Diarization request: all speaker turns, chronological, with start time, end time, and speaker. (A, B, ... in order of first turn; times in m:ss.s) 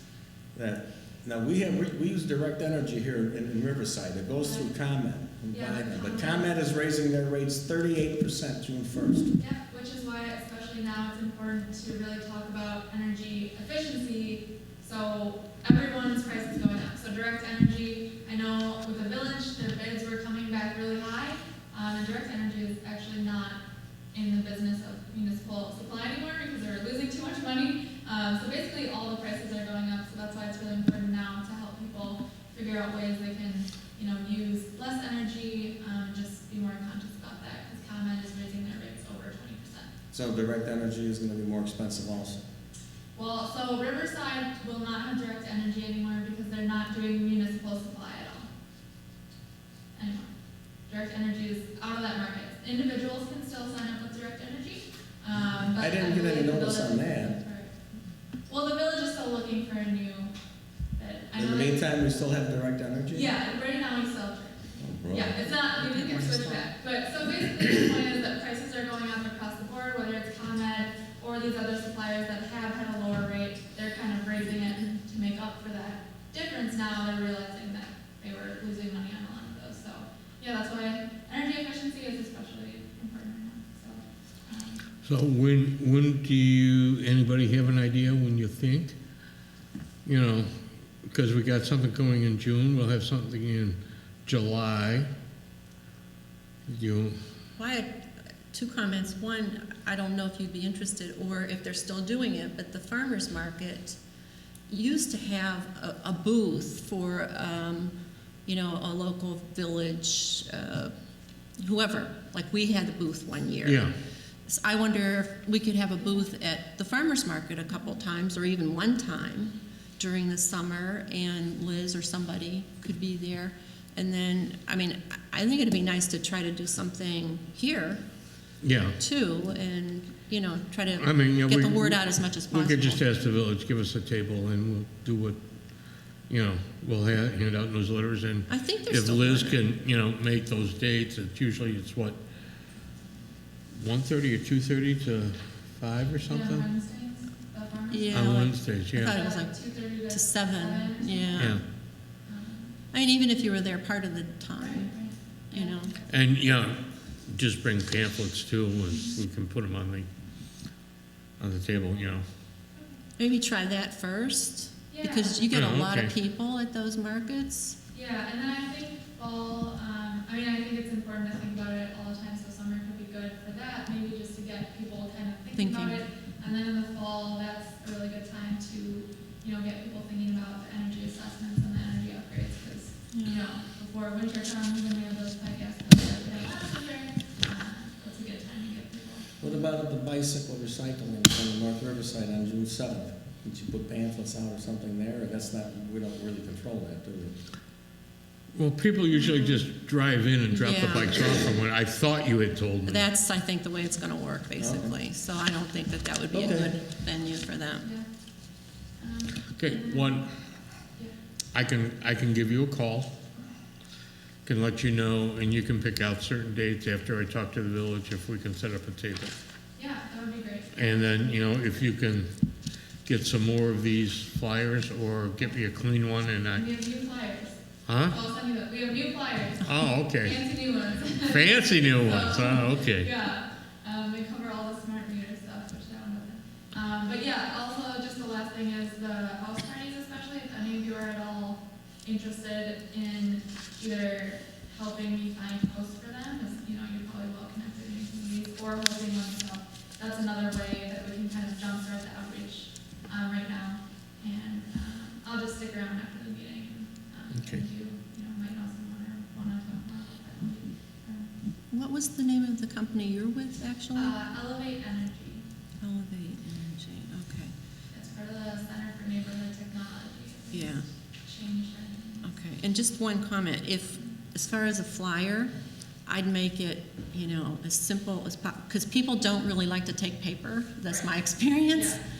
0:00.5-0:09.3 A
0:04.4-0:04.7 B
0:05.5-0:06.5 B
0:09.4-0:23.6 B
0:24.1-0:39.9 B
0:40.1-0:42.4 A
0:43.1-0:48.5 B
0:49.9-0:50.3 B
0:50.9-0:57.7 B
0:55.8-0:57.4 A
0:58.5-1:00.3 B
1:01.0-1:01.9 B
1:01.4-1:03.3 A
1:03.1-1:24.9 B
1:04.8-1:05.4 A
1:25.0-1:29.0 C
1:30.0-1:30.5 C
1:31.0-1:35.1 C
1:36.7-1:37.2 C
1:37.6-1:44.0 D
1:44.7-1:47.9 D
1:48.4-1:50.9 D
1:51.6-1:53.9 D
1:53.6-1:53.9 C
1:54.4-2:08.0 D
2:08.6-2:09.0 C
2:09.0-2:13.1 D
2:11.0-2:15.4 C
2:16.3-2:22.2 C
2:18.5-2:19.6 D
2:23.8-2:26.7 C
2:26.3-2:28.4 B
2:27.9-2:31.6 D
2:28.1-2:29.2 C
2:29.1-2:31.5 B
2:31.4-2:31.6 C
2:32.2-2:32.8 B
2:32.9-2:34.9 D
2:34.6-2:36.1 B
2:35.5-2:36.0 D
2:36.1-2:40.1 C
2:38.9-2:39.1 B
2:41.4-2:42.2 C
2:42.8-2:43.0 B
2:43.2-2:47.8 D
2:44.9-2:45.5 B
2:45.5-2:46.1 C
2:47.9-3:09.6 B
2:55.5-2:56.0 D
3:03.1-3:03.4 D
3:09.4-3:17.4 A
3:18.5-3:23.0 C
3:19.1-3:19.6 B
3:20.6-3:21.2 D
3:22.8-3:27.9 D
3:24.6-3:25.0 A
3:26.3-3:26.7 A
3:27.8-3:28.1 B
3:29.0-3:30.3 B
3:29.6-3:30.3 C
3:31.5-3:33.1 C
3:34.4-3:39.3 C
3:39.8-3:41.5 B
3:40.7-3:42.3 C
3:43.0-3:46.6 C
3:46.5-4:21.3 B
3:47.9-3:48.2 C
3:49.6-3:50.4 C
3:51.2-3:53.1 C
4:17.3-4:17.6 C
4:21.7-4:24.1 D
4:23.9-4:25.4 B
4:25.8-4:27.5 D
4:27.9-4:32.3 B
4:30.5-4:30.8 D
4:32.2-4:35.5 D
4:36.0-4:42.0 D
4:41.7-4:42.0 B